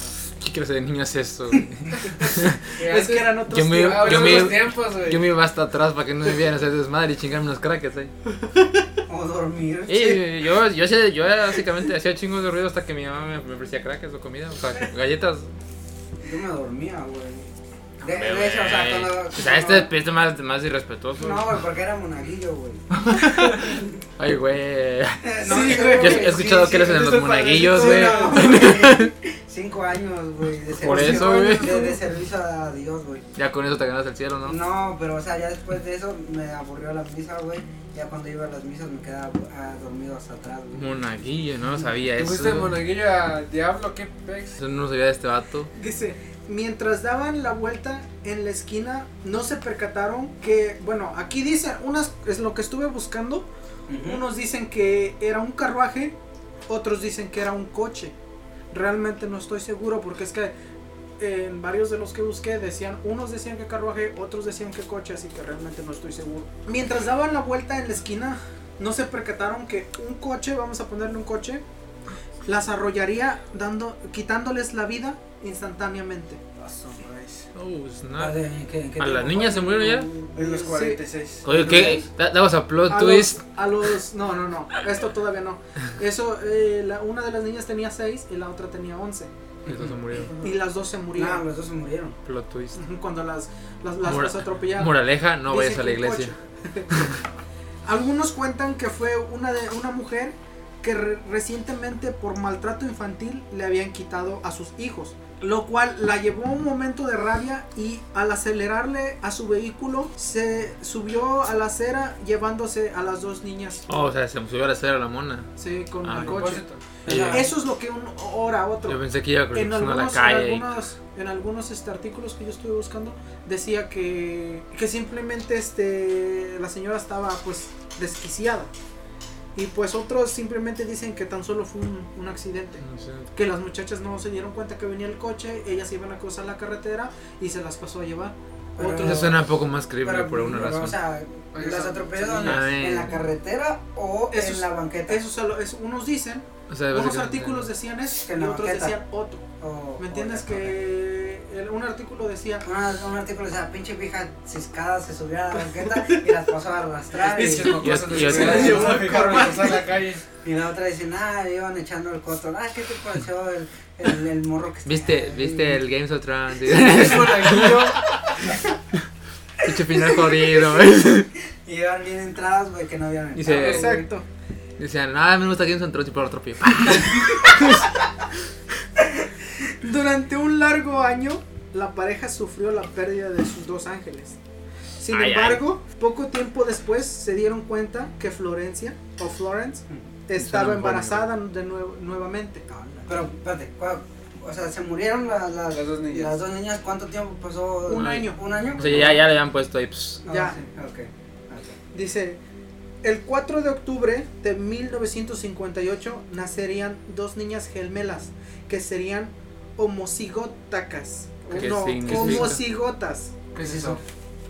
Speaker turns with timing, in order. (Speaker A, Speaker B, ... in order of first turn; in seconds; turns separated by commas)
Speaker A: 0.4-2.8, Speaker B: 2.0-4.6, Speaker C: 2.8-5.3, Speaker A: 3.4-8.1, Speaker D: 9.1-10.2, Speaker A: 9.9-15.5, Speaker D: 16.2-19.9, Speaker A: 18.0-21.5, Speaker D: 21.2-22.9, Speaker A: 22.9-29.1, Speaker D: 23.6-23.9, Speaker D: 25.2-26.7, Speaker B: 25.5-28.7, Speaker D: 27.7-33.2, Speaker A: 30.8-31.9, Speaker B: 30.9-31.9, Speaker A: 33.4-34.6, Speaker D: 34.4-40.9, Speaker A: 40.7-42.8, Speaker C: 42.1-44.6, Speaker A: 44.6-45.7, Speaker B: 45.7-56.1, Speaker D: 53.9-54.2, Speaker B: 56.7-58.1, Speaker B: 58.7-60.5, Speaker B: 61.2-71.6, Speaker B: 72.5-76.4, Speaker C: 76.6-77.5, Speaker A: 77.5-78.4, Speaker D: 78.2-80.8, Speaker A: 79.0-80.1, Speaker C: 80.3-82.0, Speaker B: 80.7-81.0, Speaker D: 81.5-82.0, Speaker A: 81.5-83.4, Speaker B: 82.9-89.3, Speaker D: 89.7-90.2, Speaker A: 89.7-90.3, Speaker B: 90.4-91.4, Speaker D: 91.1-92.2, Speaker A: 92.3-92.8, Speaker B: 92.8-96.9, Speaker A: 94.0-96.3, Speaker B: 97.8-113.9, Speaker A: 113.9-115.5, Speaker B: 115.6-119.0, Speaker A: 116.0-117.5, Speaker C: 116.2-116.8, Speaker D: 117.1-117.5, Speaker A: 118.9-120.7, Speaker B: 119.5-128.7, Speaker B: 129.6-139.4, Speaker A: 132.8-133.3, Speaker D: 138.8-139.4, Speaker A: 139.0-141.0, Speaker D: 140.0-145.2, Speaker C: 141.5-142.8, Speaker A: 142.4-143.2, Speaker B: 144.3-149.4, Speaker A: 146.7-147.7, Speaker D: 148.2-149.0, Speaker D: 149.6-150.8, Speaker B: 150.0-152.7, Speaker D: 152.6-158.9, Speaker C: 157.2-160.2, Speaker B: 157.4-159.9, Speaker A: 157.5-159.1, Speaker D: 160.4-165.8, Speaker A: 164.9-168.0, Speaker C: 166.7-168.1, Speaker D: 166.9-167.4, Speaker A: 169.6-171.3, Speaker D: 169.7-170.4, Speaker D: 171.7-174.1, Speaker A: 173.3-174.1, Speaker B: 173.5-174.3, Speaker A: 174.8-177.9, Speaker B: 179.6-184.4, Speaker B: 185.0-192.7, Speaker A: 185.1-185.7, Speaker A: 190.4-191.3, Speaker D: 192.7-199.1, Speaker C: 195.7-196.3, Speaker B: 197.9-198.4, Speaker A: 197.9-200.2, Speaker C: 198.8-199.2, Speaker D: 200.2-201.8, Speaker B: 200.3-200.6, Speaker B: 201.9-202.4, Speaker B: 203.0-213.3, Speaker A: 211.5-212.6, Speaker C: 212.1-212.6, Speaker C: 213.5-214.0, Speaker D: 213.6-214.0